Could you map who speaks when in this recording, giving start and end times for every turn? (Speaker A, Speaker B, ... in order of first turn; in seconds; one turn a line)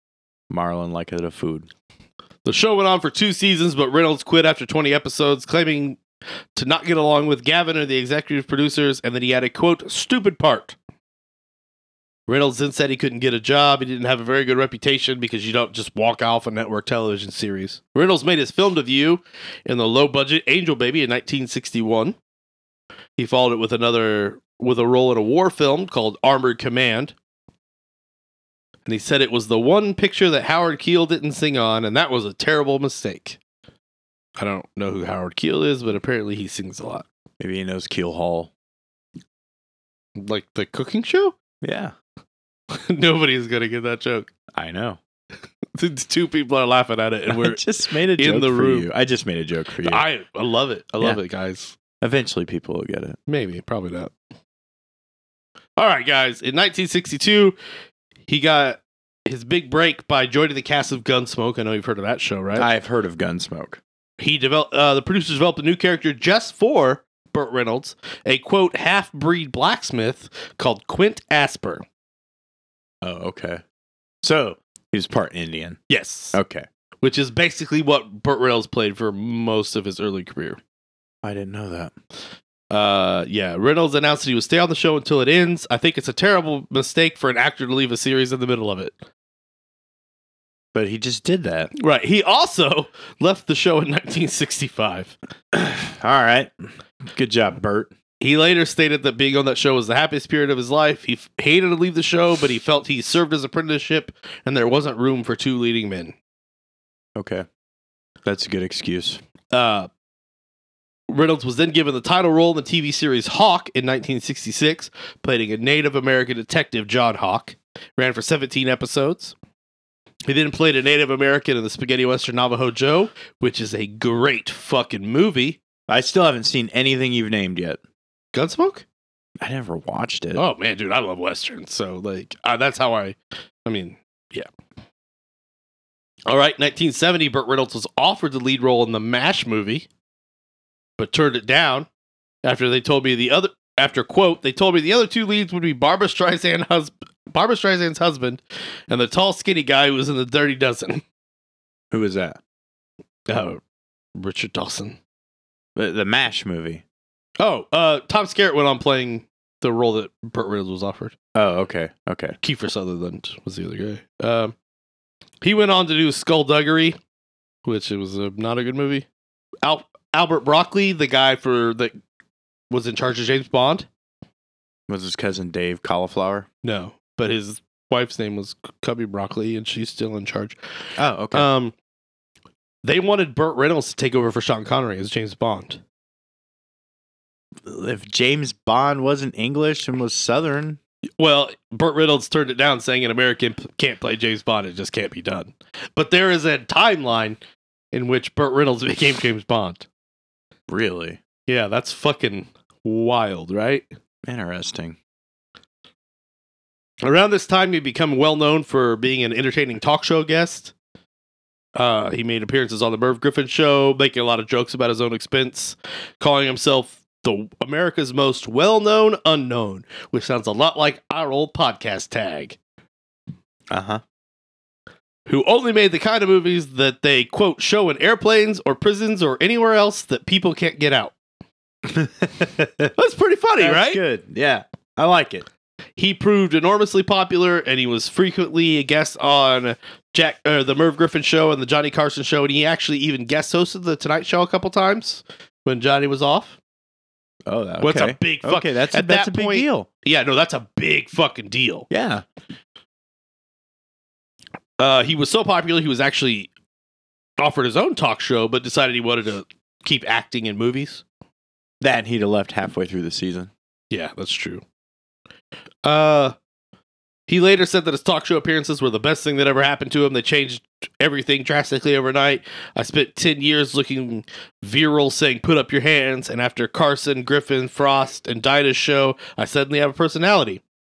Speaker A: 0.5-1.7
Speaker B: 2.5-6.0
Speaker B: 6.5-10.8
Speaker B: 12.3-22.2
Speaker B: 23.2-27.1
Speaker B: 28.9-33.4
Speaker B: 34.4-37.1
Speaker A: 37.4-38.5
Speaker B: 40.2-41.4
Speaker A: 41.6-41.9
Speaker B: 42.7-44.3
Speaker A: 44.5-45.0
Speaker B: 45.8-47.6
Speaker A: 47.3-50.0
Speaker B: 48.2-48.9
Speaker B: 49.8-51.8
Speaker A: 52.0-53.2
Speaker B: 53.3-54.1
Speaker B: 55.8-57.6
Speaker B: 58.3-62.7
Speaker A: 62.6-63.8
Speaker B: 64.2-71.8
Speaker A: 73.0-73.6
Speaker A: 74.2-75.8
Speaker B: 75.9-76.4
Speaker A: 76.3-76.7
Speaker B: 77.0-80.6
Speaker A: 81.2-81.9
Speaker B: 82.7-89.0
Speaker A: 90.7-91.7
Speaker B: 91.8-95.2
Speaker A: 95.5-97.9
Speaker B: 98.2-106.2
Speaker A: 107.2-107.5
Speaker A: 108.2-109.2
Speaker B: 109.5-109.9
Speaker B: 111.1-119.3
Speaker B: 120.2-125.6
Speaker A: 125.9-127.8
Speaker B: 128.3-128.8
Speaker A: 129.4-130.4
Speaker B: 130.3-134.5
Speaker B: 136.3-139.9
Speaker B: 141.0-141.9
Speaker B: 142.4-151.0
Speaker A: 151.9-152.4
Speaker B: 153.3-153.6
Speaker B: 154.2-155.0
Speaker A: 155.8-156.8
Speaker B: 157.4-161.2
Speaker A: 161.3-162.4
Speaker B: 162.4-164.6
Speaker B: 165.4-167.0
Speaker B: 167.7-169.1
Speaker B: 169.6-172.0
Speaker B: 172.7-173.9
Speaker A: 174.9-176.5
Speaker B: 176.6-180.6
Speaker A: 181.0-181.5
Speaker B: 181.3-181.7
Speaker B: 182.8-185.8
Speaker A: 187.6-190.8
Speaker B: 191.2-197.4
Speaker B: 197.9-199.9
Speaker A: 200.7-201.2
Speaker B: 201.5-203.9
Speaker A: 204.2-205.0
Speaker B: 207.0-210.7
Speaker B: 211.8-222.6
Speaker A: 223.7-224.0
Speaker B: 225.3-231.1
Speaker A: 231.8-232.9
Speaker B: 233.0-234.0
Speaker A: 233.6-235.5
Speaker B: 236.0-246.6
Speaker A: 247.5-249.9
Speaker B: 247.8-251.9
Speaker A: 251.9-252.2
Speaker B: 254.8-256.5
Speaker B: 257.4-261.0
Speaker A: 261.8-263.5
Speaker B: 263.9-264.6
Speaker B: 265.8-266.4
Speaker B: 267.3-280.6